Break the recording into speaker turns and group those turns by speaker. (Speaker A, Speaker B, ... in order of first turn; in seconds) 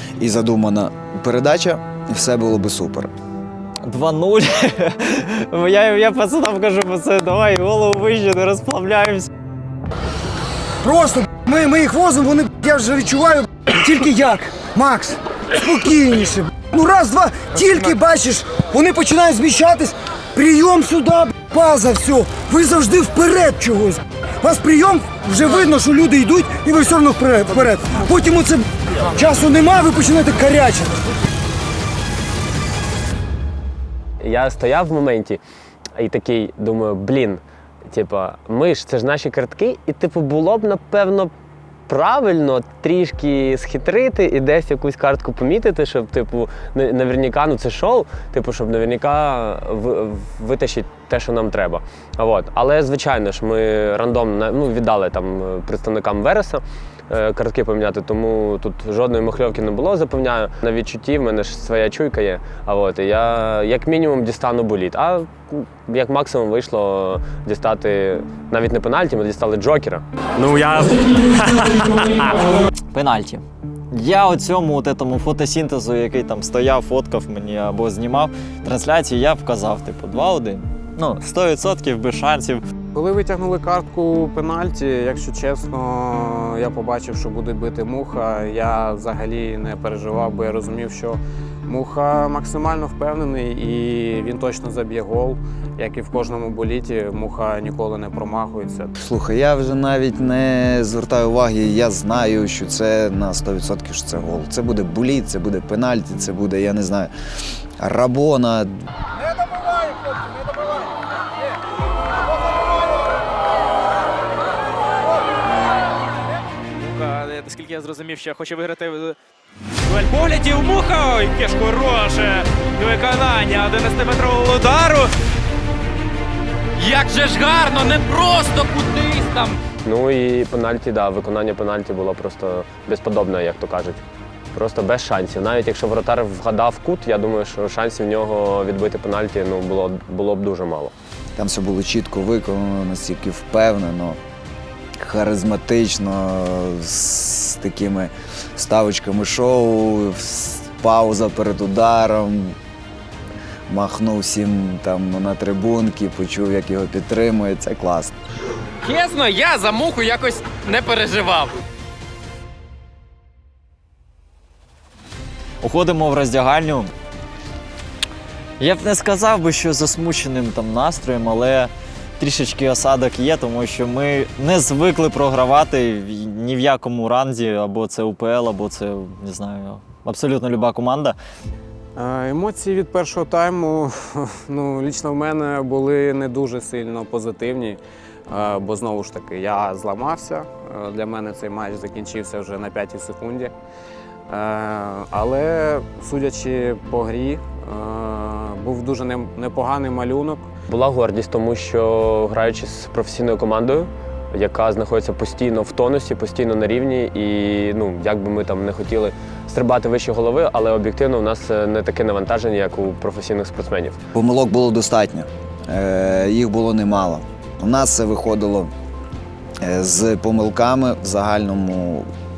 Speaker A: 0.2-3.1, 99.0-107.1, 107.8-108.7, 141.4-144.2, 145.0-152.6, 153.7-158.1, 214.1-218.7, 219.6-222.1
Speaker B: 3.8-9.3, 72.9-82.6, 165.6-166.9, 168.6-181.2
Speaker C: 10.8-30.9
Speaker D: 34.2-35.4, 36.0-41.3, 41.9-70.0, 129.8-134.0, 134.5-140.9, 200.7-214.0
Speaker E: 70.4-72.4
Speaker F: 82.9-98.9, 181.9-193.5, 194.3-200.5
Speaker G: 116.7-119.2, 119.8-125.1
Speaker H: 126.8-129.6, 158.8-161.5